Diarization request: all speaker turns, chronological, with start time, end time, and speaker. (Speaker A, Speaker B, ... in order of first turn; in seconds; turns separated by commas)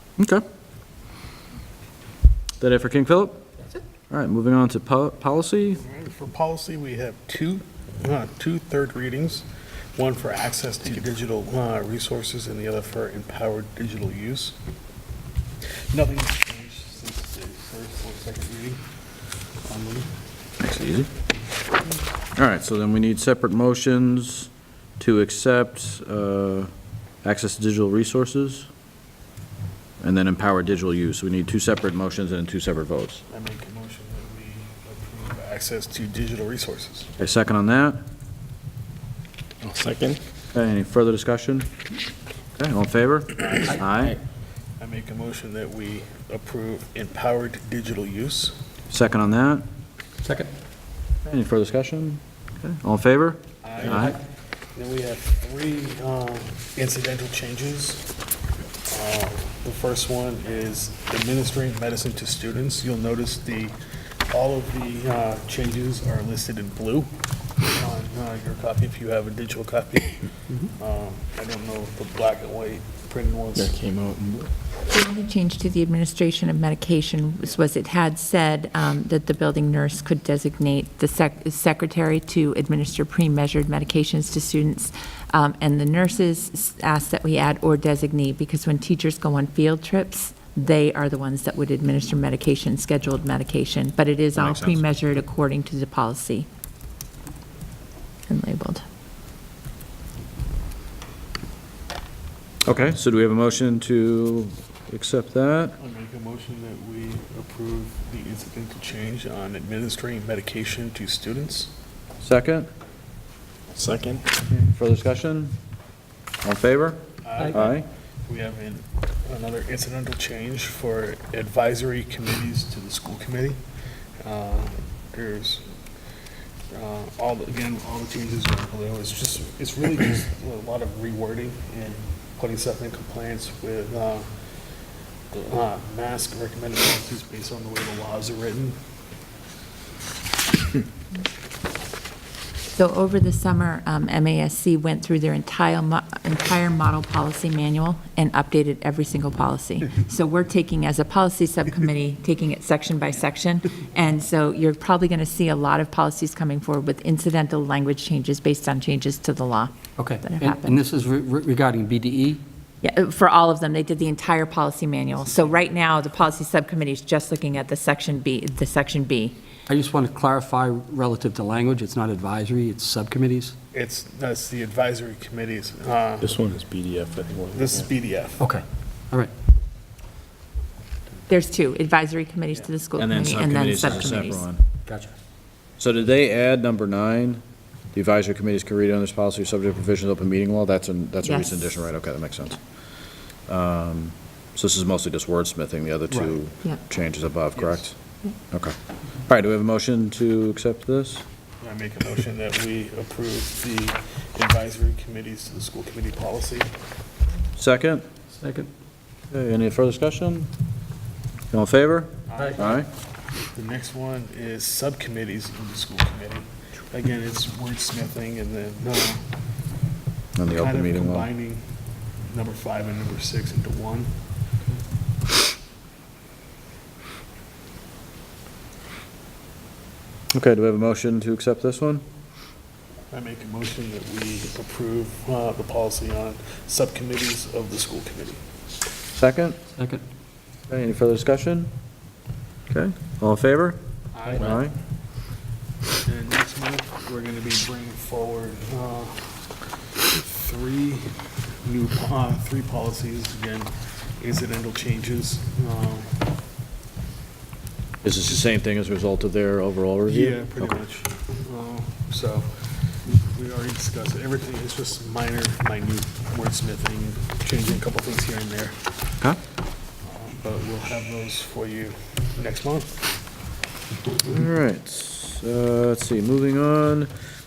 Speaker A: 0.2-0.4, Speaker A: 2.6-3.5, Speaker A: 4.1-5.8, Speaker B: 5.8-14.6, Speaker B: 15.9-18.8, Speaker B: 19.6-20.1, Speaker A: 20.6-21.1, Speaker A: 22.4-26.7, Speaker A: 27.2-28.7, Speaker A: 30.0-33.2, Speaker B: 33.3-37.1, Speaker A: 37.2-38.0, Speaker C: 39.6-40.2, Speaker A: 40.5-41.7, Speaker A: 42.6-44.2, Speaker B: 44.8-48.6, Speaker A: 48.9-49.7, Speaker D: 50.2-50.5, Speaker A: 51.2-54.1, Speaker B: 53.6-54.2, Speaker D: 53.8-54.2, Speaker B: 54.8-58.1, Speaker B: 58.9-63.8, Speaker B: 64.3-67.1, Speaker B: 67.6-73.7, Speaker C: 73.6-74.5, Speaker E: 74.9-96.5, Speaker A: 94.3-94.8, Speaker E: 98.3-98.8, Speaker A: 102.7-105.8, Speaker B: 105.8-111.7, Speaker A: 112.2-112.7, Speaker C: 113.8-114.4, Speaker A: 114.6-115.6, Speaker A: 116.4-117.9, Speaker B: 117.2-123.6, Speaker B: 124.2-125.7, Speaker B: 126.7-134.3, Speaker B: 135.3-138.8, Speaker E: 142.8-160.8, Speaker D: 160.0-162.4, Speaker E: 162.8-169.4, Speaker B: 165.3-165.8, Speaker D: 169.7-173.6, Speaker B: 173.7-176.3, Speaker C: 176.2-177.9, Speaker B: 177.5-178.4, Speaker D: 178.4-179.3, Speaker E: 181.3-184.4, Speaker A: 183.0-184.6, Speaker D: 184.9-185.1, Speaker A: 185.8-187.4, Speaker A: 187.9-192.6, Speaker E: 191.2-191.6, Speaker A: 193.5-197.9, Speaker D: 196.1-196.4, Speaker B: 197.5-197.9, Speaker A: 198.5-201.2, Speaker B: 201.6-206.7, Speaker A: 207.6-208.1, Speaker D: 208.3-208.7, Speaker A: 209.3-210.5, Speaker A: 211.5-212.9, Speaker B: 212.3-212.8, Speaker B: 213.5-219.2, Speaker A: 220.4-221.3, Speaker B: 220.5-221.7, Speaker B: 222.2-224.1, Speaker A: 230.3-232.0, Speaker B: 233.1-238.4, Speaker A: 239.2-239.6, Speaker D: 239.8-240.0, Speaker A: 240.7-241.7, Speaker A: 242.7-243.8, Speaker B: 244.1-244.6, Speaker A: 244.3-244.7, Speaker B: 246.1-256.2, Speaker A: 258.0-260.7, Speaker B: 260.1-268.9, Speaker B: 270.0-272.9, Speaker A: 274.2-277.1